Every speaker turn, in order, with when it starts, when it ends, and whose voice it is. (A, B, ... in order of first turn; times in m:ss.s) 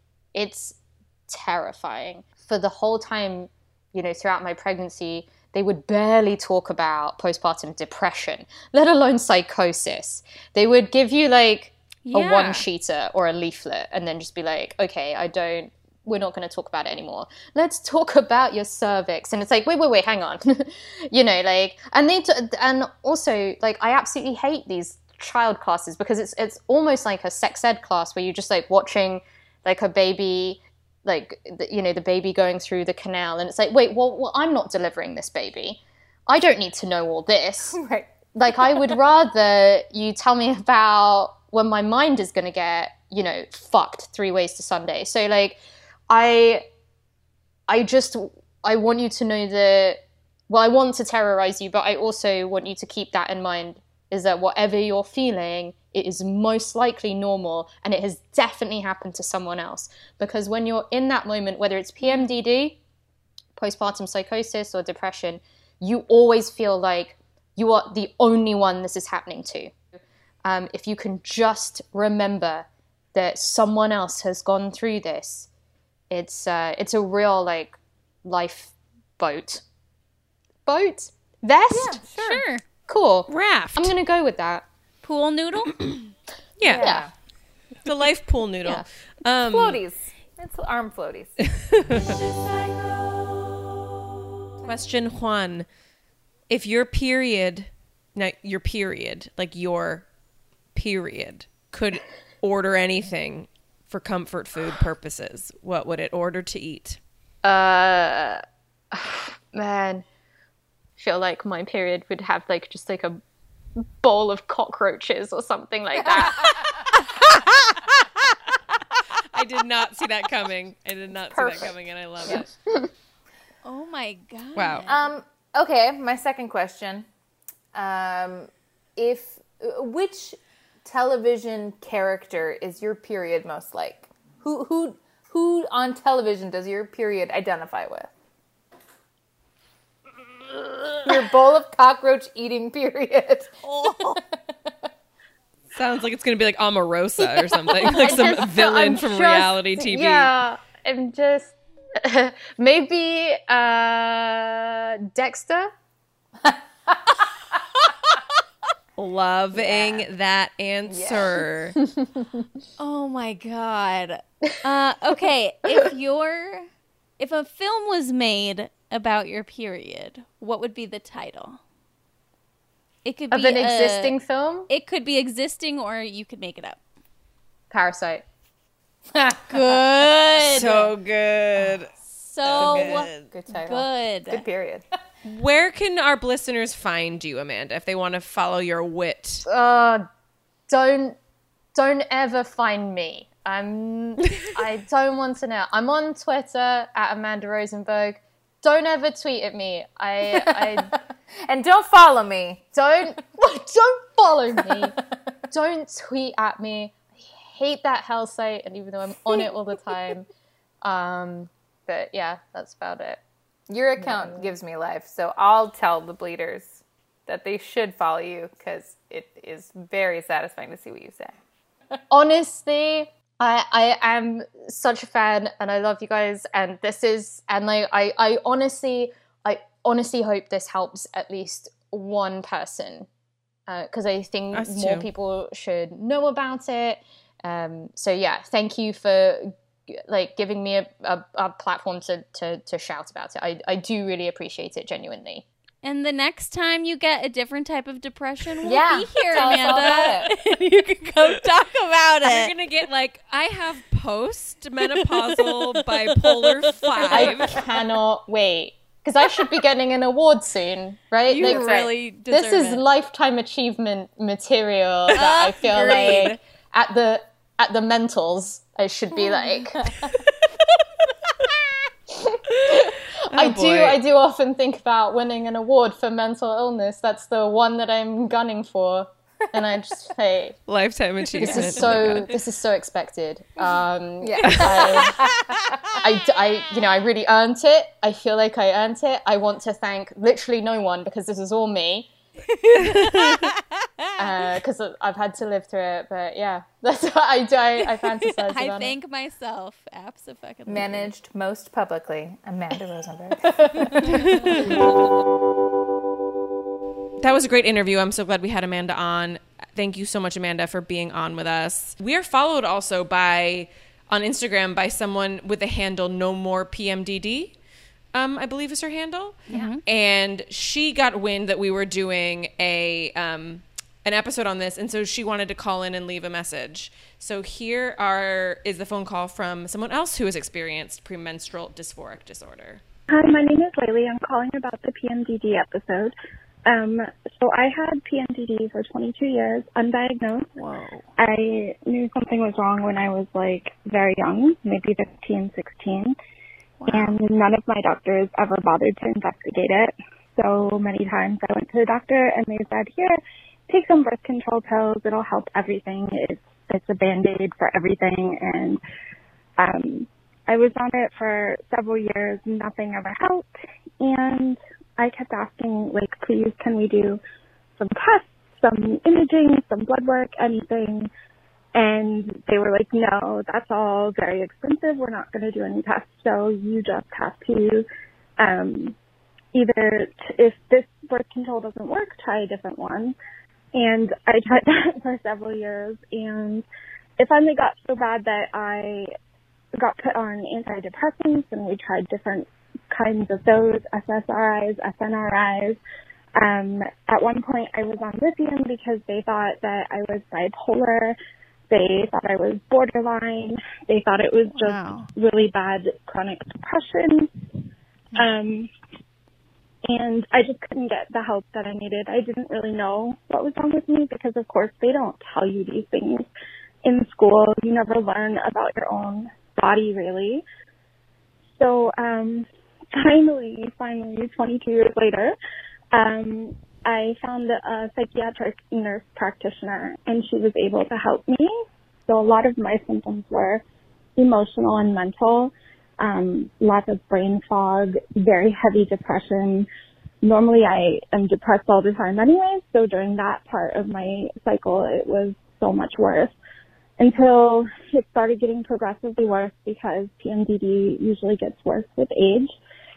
0:00.3-0:37.8 A
0:12.1-0:12.7 B
0:37.7-0:39.0 C
0:38.4-0:46.7 A
0:47.7-1:02.8 A
1:03.6-1:15.5 A
1:16.1-1:19.6 A
1:20.7-1:22.0 A
1:21.7-1:22.4 C
1:22.1-1:22.6 B
1:22.9-1:24.7 A
1:23.3-1:23.9 D
1:25.0-1:25.8 B
1:26.6-1:26.9 D
1:26.6-1:27.1 C
1:26.8-1:27.1 A
1:27.8-1:29.8 D
1:29.4-1:31.4 C
1:31.5-1:32.2 D
1:34.6-1:35.7 D
1:36.5-1:40.1 D
1:40.8-1:47.0 D
1:47.4-1:48.4 A
1:48.9-1:50.0 A
1:51.0-1:53.2 A
1:53.8-1:57.3 A
1:59.3-2:02.5 D
2:01.3-2:01.7 A
2:02.3-2:02.9 A
2:03.6-2:05.1 B
2:04.6-2:04.9 D
2:04.9-2:07.1 C
2:07.7-2:18.1 C
2:20.5-2:24.2 C
2:25.7-2:30.3 D
2:27.8-2:35.7 A
2:39.0-2:41.8 D
2:39.7-2:40.0 C
2:40.9-2:41.4 C
2:42.8-2:46.7 B
2:47.2-2:51.6 B
2:53.0-2:54.2 B
2:53.3-2:54.7 A
2:54.7-2:56.8 B
2:57.7-2:58.2 A
2:59.2-2:59.4 C
2:59.5-3:00.9 B
3:00.4-3:01.9 D
3:02.1-3:04.4 B
3:02.4-3:03.2 D
3:02.6-3:03.6 C
3:03.3-3:03.8 A
3:04.3-3:04.8 C
3:05.2-3:09.5 D
3:09.5-3:10.0 A
3:10.7-3:11.2 A
3:11.7-3:20.9 A
3:20.2-3:20.9 C
3:21.5-3:22.8 C
3:22.8-3:25.0 A
3:24.6-3:24.9 C
3:25.5-3:30.2 A
3:30.8-3:33.2 A
3:33.7-3:41.4 C
3:34.0-3:34.5 A
3:42.1-3:53.1 A
3:53.7-4:05.4 A
3:54.5-3:55.1 D
4:05.8-4:12.5 B
4:08.6-4:10.3 C
4:12.2-4:17.6 D
4:16.8-4:17.4 B
4:17.1-4:30.0 A
4:21.3-4:22.8 B
4:21.3-4:22.0 C
4:25.1-4:26.4 B
4:32.2-4:40.6 A
4:32.6-4:34.0 D
4:40.7-4:42.3 D
4:41.4-4:45.2 A
4:44.2-4:45.4 C
4:44.4-4:45.2 D
4:46.0-4:52.1 A
4:52.8-4:53.5 D
4:52.8-4:53.1 B
4:54.2-4:58.9 A
4:58.4-5:01.1 B
5:00.7-5:04.7 C
5:04.0-5:04.9 D
5:07.2-5:17.6 D
5:18.1-5:32.8 D
5:19.5-5:19.8 B
5:33.1-5:36.2 E
5:36.7-5:40.6 E
5:40.6-5:41.0 B
5:41.2-5:46.2 E
5:46.8-5:47.2 B
5:46.9-5:58.8 E
5:59.6-6:03.5 E
6:04.0-6:07.2 E
6:07.8-6:11.1 E
6:11.7-6:17.9 E
6:18.4-6:19.0 E
6:19.5-6:23.2 E
6:23.7-6:26.7 E
6:27.2-6:29.1 E
6:29.8-6:35.8 E
6:36.4-6:41.2 E
6:41.7-6:47.3 E
6:44.5-6:45.1 B
6:48.1-6:48.7 E
6:49.9-6:56.3 E
6:56.8-7:00.4 E
7:01.6-7:05.4 E
7:05.9-7:11.5 E
7:12.1-7:13.6 E
7:14.2-7:19.7 E
7:20.2-7:26.4 E
7:27.0-7:32.5 E